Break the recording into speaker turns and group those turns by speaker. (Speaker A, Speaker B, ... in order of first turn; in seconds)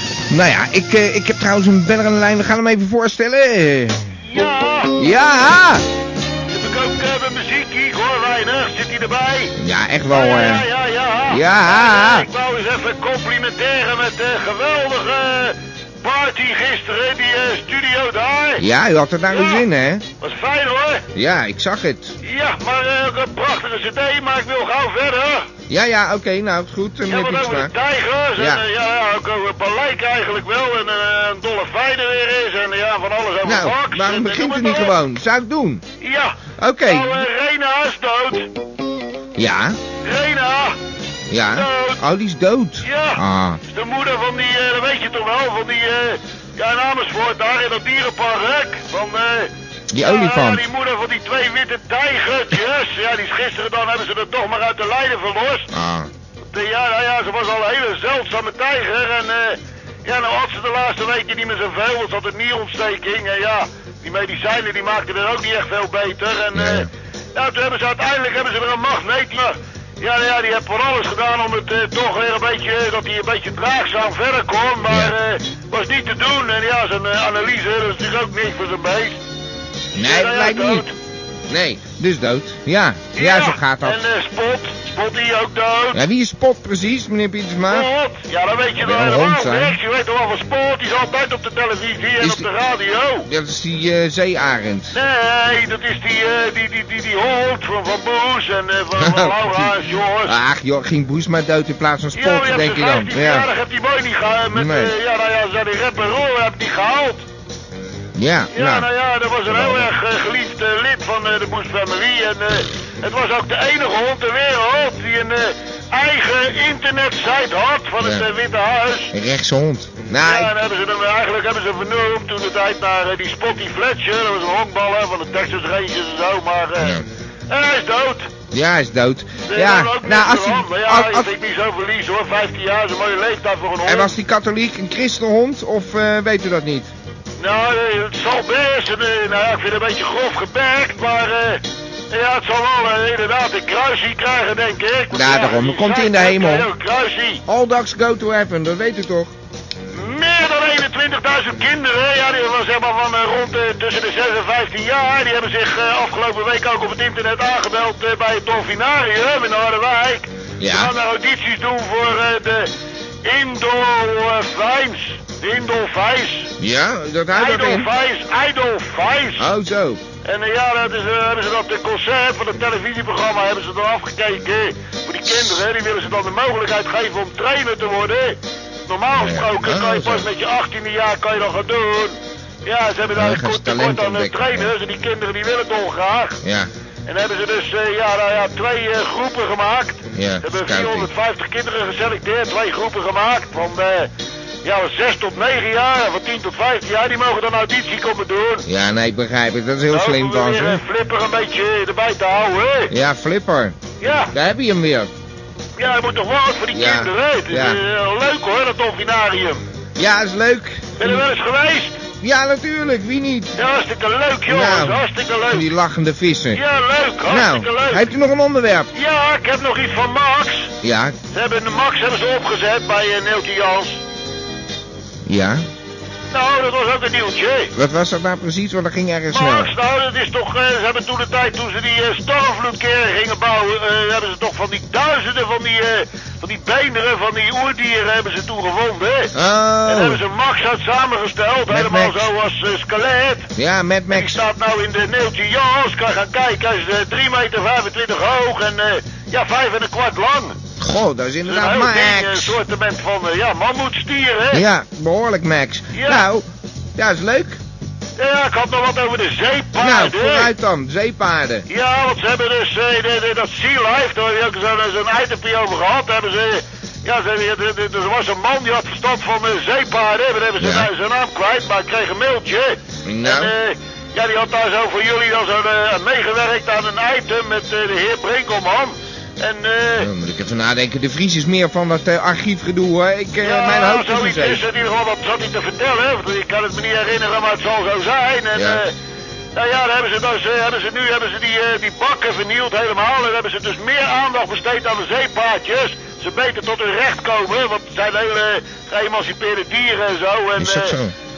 Speaker A: 0.3-5.8, 9.6-10.7, 11.3-12.3, 18.6-20.1, 21.1-22.1, 25.7-27.7, 28.4-28.6, 33.4-35.8, 36.6-37.3, 39.4-39.8, 41.3-43.6, 49.9-50.6, 55.7-56.1, 66.5-66.9, 74.9-75.1, 79.9-80.9, 81.5-84.0, 85.9-87.9, 88.8-89.8, 92.2-92.5, 93.3-94.9, 98.9-99.7, 100.2-103.5, 104.5-104.9, 108.2-108.9, 109.5-109.9, 118.0-118.3, 119.1-120.5, 126.8-127.0, 128.5-131.3, 133.8-136.9, 145.1-146.7, 147.5-149.3, 160.6-160.9, 166.6-167.9, 169.4-170.0, 179.1-180.3, 183.1-184.7, 186.4-186.7, 190.1-191.1, 198.7-200.8, 202.9-203.8, 204.3-205.1, 206.7-207.8, 210.0-211.3, 212.2-213.5, 214.5-216.6, 217.3-218.9, 220.8-221.2, 225.3-225.6, 227.8-229.7, 239.3-240.2, 241.7-242.3, 243.6-244.4, 250.8-252.6, 254.5-257.6, 259.8-261.6, 270.6-270.9, 273.1-273.5, 280.0-284.6, 288.6-288.8, 300.6-301.1
Speaker B: 4.3-4.9, 6.5-9.5, 10.1-18.6, 19.3-19.6, 20.2-21.0, 22.2-25.5, 27.1-34.9, 36.0-38.5, 40.0-40.8, 41.5-42.0, 42.8-55.7, 56.5-79.2, 80.0-80.9, 83.2-86.0, 87.7-93.3, 94.9-100.3, 102.1-107.2, 108.5-119.1, 120.2-127.0, 127.5-128.3, 129.5-134.1, 137.4-147.4, 149.9-162.7, 163.3-166.5, 167.3-169.5, 170.2-186.4, 187.1-194.1, 194.6-198.6, 199.9-202.9, 204.0-204.3, 205.8-209.6, 211.0-212.0, 213.6-215.6, 216.5-218.0, 218.9-220.7, 221.3-224.0, 226.3-227.7, 229.3-239.3, 239.9-243.5, 244.1-250.6, 251.4-254.6, 255.9-256.2, 258.2-260.5, 261.7-280.1, 283.4-288.9, 289.6-300.9